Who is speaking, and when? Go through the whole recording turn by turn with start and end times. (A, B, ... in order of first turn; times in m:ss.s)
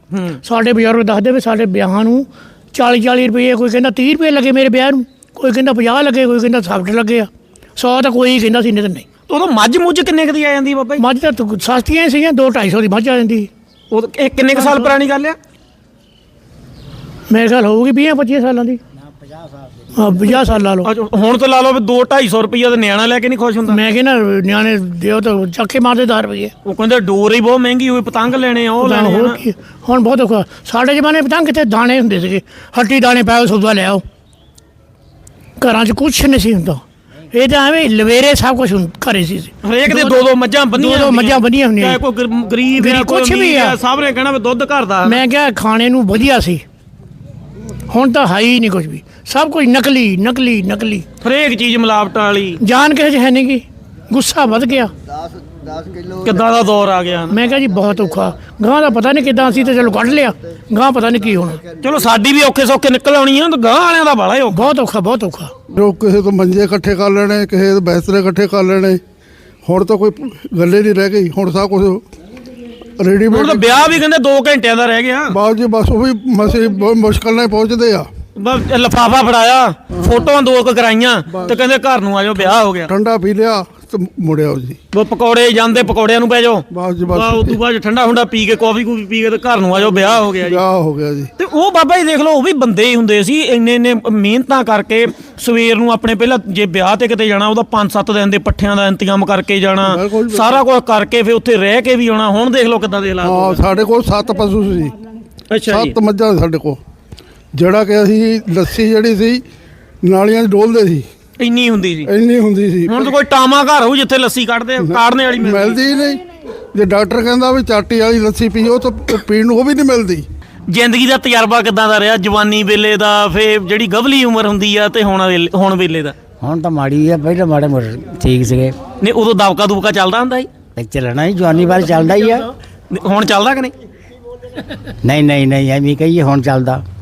0:00.1-0:00.4 A
0:00.4-0:09.0 B
0:09.3-0:11.0 A
0:11.0-0:13.5 B
0:13.9-0:15.4 A
0:14.6-0:14.9 B
0:17.3-0:18.8 B
0:20.0-0:20.9 B
0:20.8-0:23.8 A
0:23.7-0:26.5 B
0:26.6-0:29.4 A
0:28.8-0:34.0 B
0:35.6-0:36.8 B
0:37.3-0:42.0 B
0:39.6-0:45.2 A
0:42.8-0:43.8 B
0:45.0-0:46.6 B
0:47.9-0:51.0 B
0:51.2-0:52.6 A
0:52.6-0:54.9 B
0:56.2-0:57.4 A
0:57.3-1:01.6 B
1:01.8-1:04.7 A
1:04.5-1:05.5 B
1:05.7-1:09.0 C
1:09.6-1:12.0 C
1:13.0-1:13.9 C
1:13.3-1:15.4 A
1:15.3-1:18.1 C
1:18.4-1:22.9 A
1:21.3-1:21.6 C
1:22.9-1:24.8 C
1:24.9-1:30.6 A
1:26.7-1:27.6 C
1:30.4-1:31.3 C
1:31.4-1:43.6 A
1:39.8-1:40.6 C
1:43.2-1:45.0 C
1:45.5-1:46.0 A
1:45.7-1:46.8 C
1:47.5-1:49.4 C
1:50.0-1:51.1 C
1:51.4-1:52.1 A
1:52.1-1:53.1 C
1:52.9-1:55.8 A
1:54.8-1:56.2 C
1:56.7-2:00.3 C
2:00.7-2:06.2 A
2:06.4-2:08.8 D
2:09.0-2:10.5 A
2:10.8-2:12.5 D
2:12.9-2:13.7 A
2:14.9-2:16.8 D